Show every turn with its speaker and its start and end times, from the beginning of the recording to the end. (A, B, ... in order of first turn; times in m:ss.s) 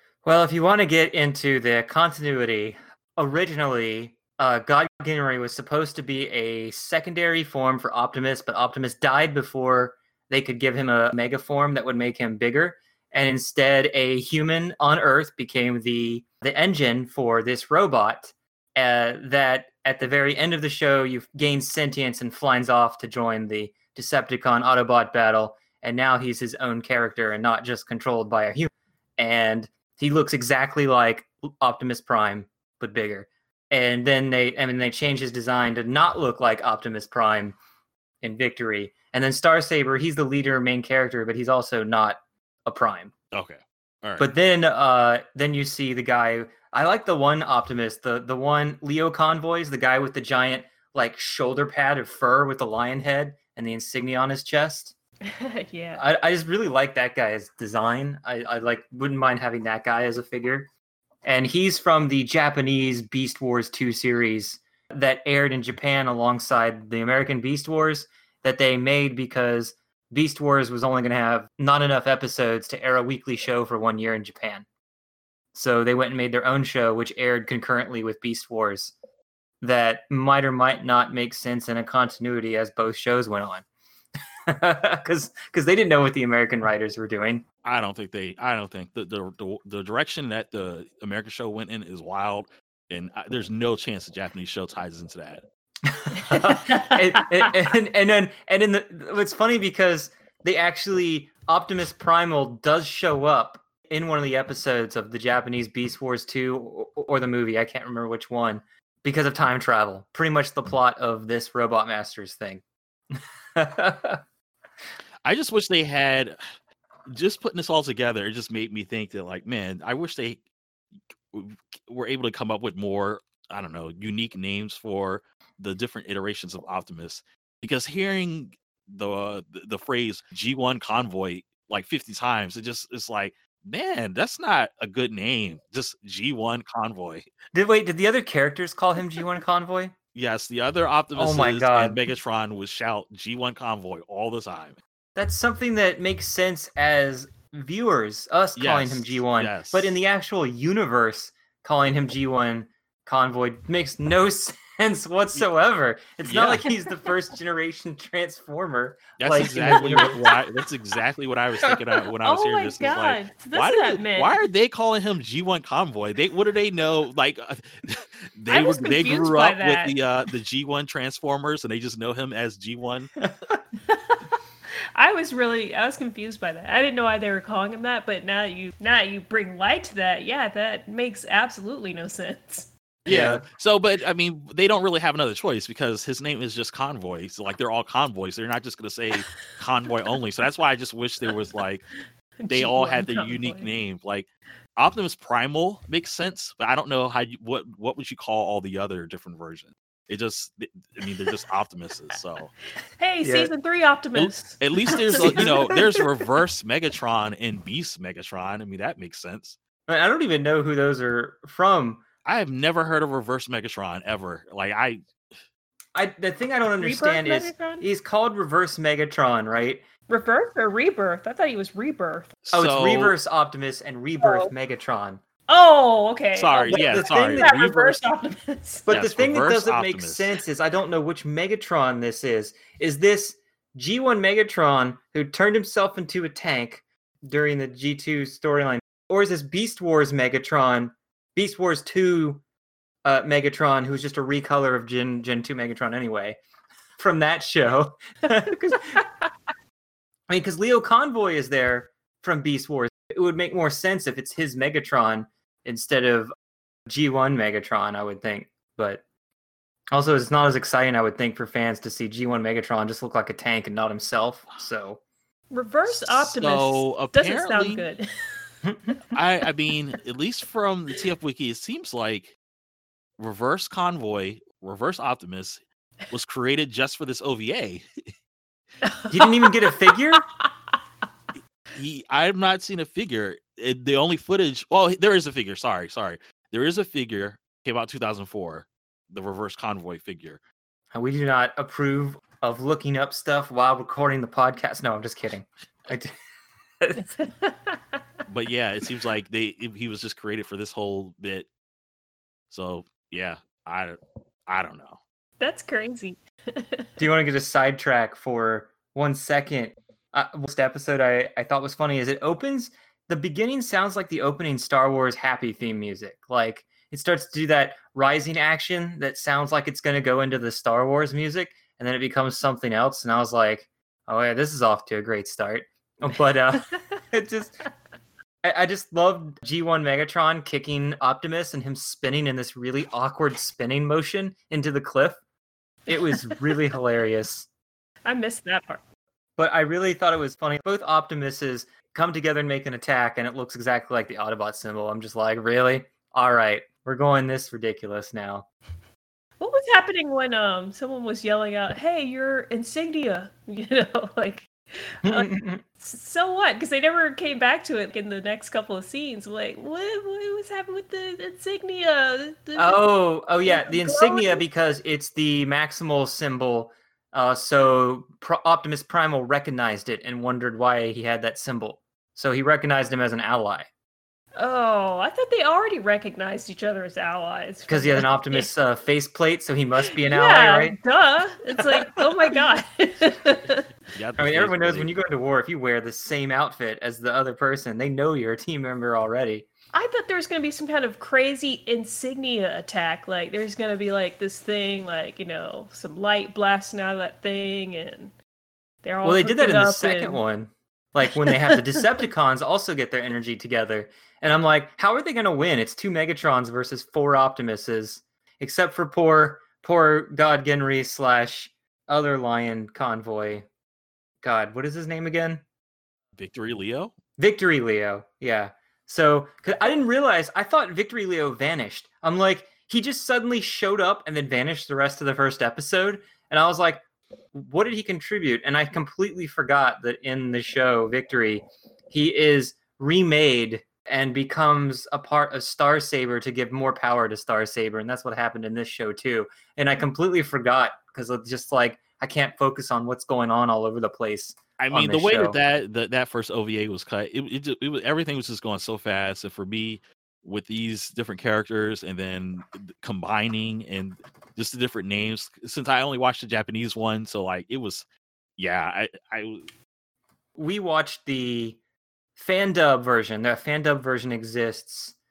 0:00.2-0:37.6 A
0:38.2-0:43.1 A
0:43.3-0:44.3 B
0:44.2-0:54.9 A
0:55.2-0:56.0 C
0:56.0-1:00.7 A
1:01.2-1:14.6 A
1:15.5-1:18.9 A
1:19.6-1:23.6 A
1:24.5-1:27.4 A
1:27.6-1:35.4 B
1:35.9-1:52.6 A
1:53.1-1:54.2 A
1:55.2-1:56.4 B
1:57.1-2:00.4 B
2:01.3-2:17.3 B
2:17.5-2:19.9 A
2:20.1-2:24.8 B
2:21.1-2:22.0 A
2:25.2-2:40.2 A
2:28.6-2:30.0 B
2:36.2-2:36.7 B
2:39.2-2:53.1 B
2:39.3-2:40.3 C
2:42.2-2:44.4 C
2:48.5-2:50.0 C
2:53.8-2:54.2 C
2:54.9-3:02.7 C
3:03.0-3:03.4 A
3:03.0-3:11.9 B
3:12.4-3:13.7 C
3:12.5-3:22.5 B
3:23.0-3:26.3 C
3:23.2-3:23.5 A
3:24.2-3:29.6 B
3:25.1-3:25.5 A
3:29.9-3:32.0 A
3:32.2-3:35.0 B
3:35.9-3:39.8 A
3:36.8-3:37.8 C
3:40.1-3:42.4 C
3:42.4-3:43.1 B
3:42.5-3:45.2 A
3:44.2-3:44.5 C
3:45.5-3:48.9 C
3:46.4-3:48.0 B
3:46.7-3:47.7 A
3:48.8-4:02.4 A
3:48.9-3:50.4 B
4:03.0-4:06.4 A
4:07.0-4:09.0 A
4:10.3-4:16.3 A
4:16.9-4:19.0 A
4:19.9-4:25.0 A
4:25.5-4:28.0 C
4:26.1-4:27.8 B
4:29.1-4:32.4 B
4:33.2-4:37.9 B
4:38.8-4:40.5 C
4:39.1-4:40.2 A
4:41.7-4:50.4 B
4:50.9-4:56.1 A
4:57.0-4:58.0 C
4:58.3-5:01.5 B
5:02.5-5:05.0 B
5:05.4-5:07.0 C
5:07.0-5:27.5 A
5:28.4-5:35.2 A
5:35.9-5:37.5 A
5:36.1-5:36.6 C
5:38.0-5:38.8 C
5:39.4-5:48.4 A
5:49.4-6:02.8 C
5:55.0-5:55.6 A
6:02.6-6:13.7 A
6:03.4-6:04.4 C
6:14.4-6:18.5 C
6:17.7-6:20.8 A
6:20.0-6:23.6 C
6:23.9-6:24.9 B
6:24.2-6:29.5 A
6:29.7-6:38.1 C
6:38.8-6:40.2 C
6:39.0-6:53.4 A
6:41.2-6:41.6 C
6:54.2-6:55.4 A
6:56.2-6:56.9 B
6:57.2-7:06.8 A
7:07.3-7:25.4 A
7:24.6-7:37.8 B
7:38.4-7:39.5 B
7:40.4-7:41.6 A
7:42.2-7:44.9 A